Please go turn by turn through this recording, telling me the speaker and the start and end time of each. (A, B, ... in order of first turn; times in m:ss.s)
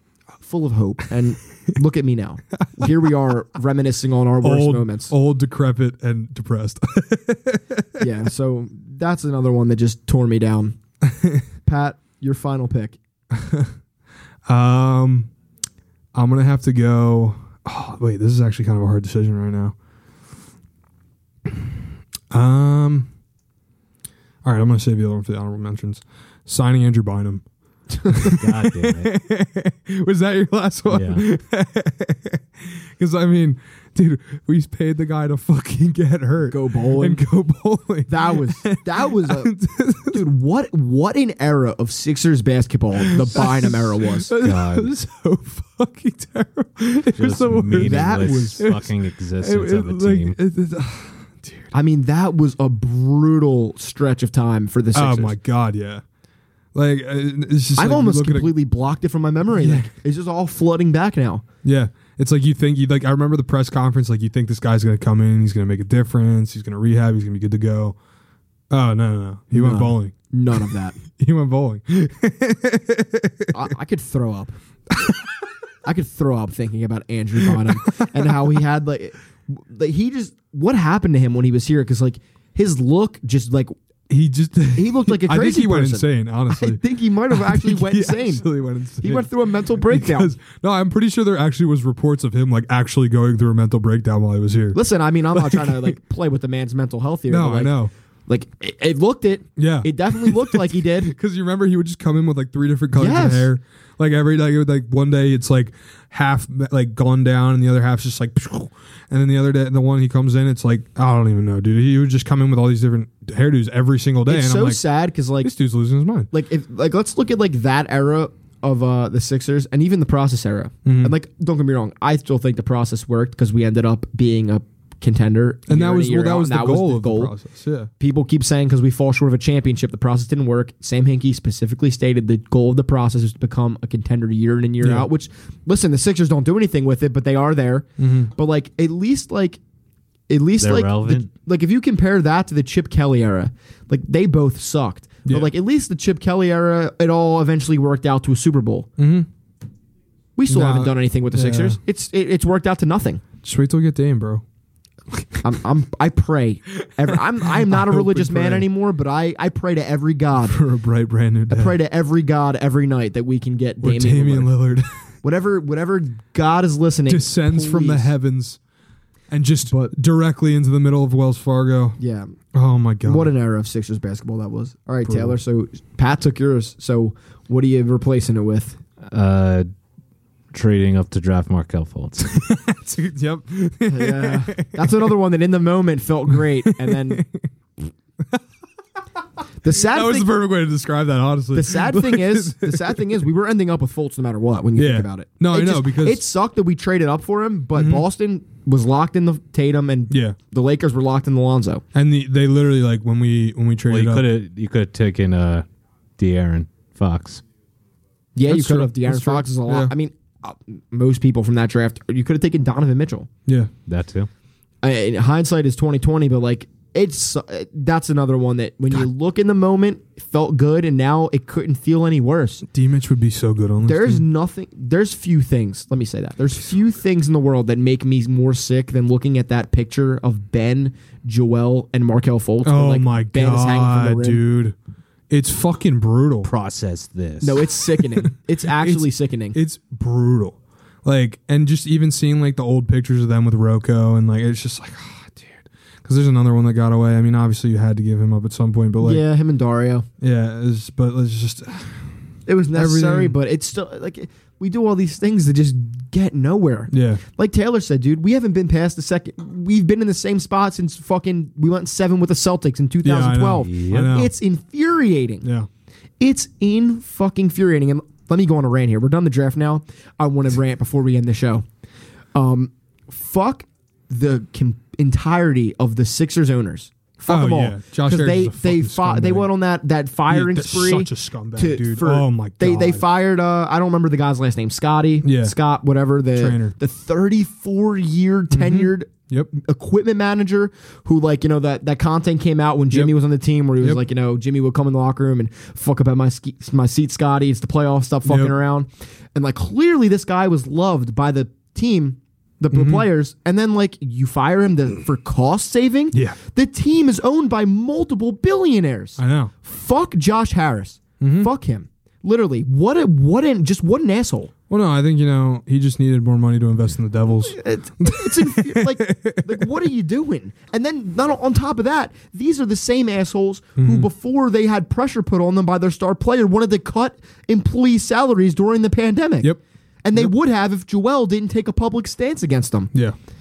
0:00.4-0:05.1 A
0:04.4-0:08.1 B
0:08.0-0:10.8 A
0:11.1-0:11.4 B
0:11.6-0:13.0 A
0:13.3-0:13.7 B
0:14.5-0:15.3 B
0:16.1-0:19.7 B
0:22.3-0:23.1 B
0:24.4-0:27.4 B
0:28.0-0:40.2 B
0:28.3-0:29.1 C
0:30.9-0:31.2 C
0:36.5-0:37.2 A
0:38.1-0:39.5 A
0:40.1-0:44.3 A
0:43.0-0:51.7 B
0:44.4-0:44.9 C
0:47.2-0:50.4 C
0:47.7-0:48.6 A
0:51.7-0:55.3 A
0:54.9-0:56.0 B
0:56.7-0:58.5 B
0:57.8-1:01.4 A
0:59.5-0:59.9 B
1:01.6-1:08.0 B
1:08.7-1:10.1 B
1:09.5-1:11.0 A
1:11.0-1:13.6 B
1:13.5-1:14.5 A
1:15.8-1:23.7 A
1:17.6-1:18.1 B
1:24.1-1:34.8 B
1:24.7-1:28.4 A
1:29.0-1:30.3 A
1:34.7-1:41.1 A
1:35.3-1:35.9 B
1:37.3-1:37.9 B
1:39.6-1:54.8 B
1:43.0-1:43.5 A
1:54.3-1:55.5 A
1:55.4-1:56.3 B
1:56.3-2:07.3 A
2:00.8-2:01.1 B
2:05.7-2:07.9 B
2:08.0-2:19.6 A
2:14.8-2:15.1 B
2:18.0-2:18.3 B
2:20.3-2:28.9 A
2:20.6-2:21.3 C
2:29.0-2:29.3 B
2:30.4-2:33.2 A
2:30.5-2:31.8 B
2:33.4-2:34.4 B
2:35.1-2:35.4 B
2:35.4-2:40.6 A
2:36.8-2:38.7 B
2:40.5-2:41.8 B
2:41.5-2:44.5 A
2:43.8-2:44.9 B
2:45.2-2:48.1 A
2:47.1-2:48.6 B
2:49.3-2:52.0 B
2:49.7-2:49.9 A
2:52.0-2:52.4 A
2:52.5-2:53.3 B
2:53.0-2:58.8 A
2:55.1-2:55.4 B
2:59.0-2:59.7 C
3:00.5-3:02.5 C
3:02.5-3:05.2 B
3:03.9-3:07.2 A
3:06.5-3:07.4 B
3:09.6-3:10.3 A
3:09.7-3:13.1 B
3:11.5-3:21.8 A
3:14.8-3:16.2 B
3:17.7-3:18.0 B
3:20.1-3:20.4 B
3:21.9-3:24.3 B
3:23.9-3:25.6 C
3:26.2-3:27.4 C
3:28.3-3:33.3 A
3:28.5-3:29.9 B
3:33.9-3:34.3 C
3:34.8-3:42.6 A
3:42.7-3:44.2 B
3:43.8-3:54.4 A
3:52.6-3:54.7 B
3:55.3-3:56.5 B
3:56.4-3:57.7 C
3:57.4-3:59.6 A
3:57.8-4:09.2 B
4:09.0-4:10.0 A
4:10.2-4:12.0 B
4:12.5-4:25.5 A
4:12.7-4:13.4 B
4:16.9-4:17.2 B
4:23.0-4:24.3 B
4:23.7-4:24.1 C
4:26.2-4:31.6 A
4:32.3-5:14.5 A
4:37.3-4:39.5 B
4:40.3-4:43.0 B
4:45.2-4:45.5 B
4:46.4-4:46.8 B
4:48.5-4:49.5 B
4:58.2-4:58.6 B
5:02.7-5:03.1 B
5:09.2-5:09.5 B
5:11.2-5:11.5 B
5:14.7-5:19.8 B
5:17.4-5:29.5 A
5:23.8-5:24.1 B
5:30.0-5:32.9 A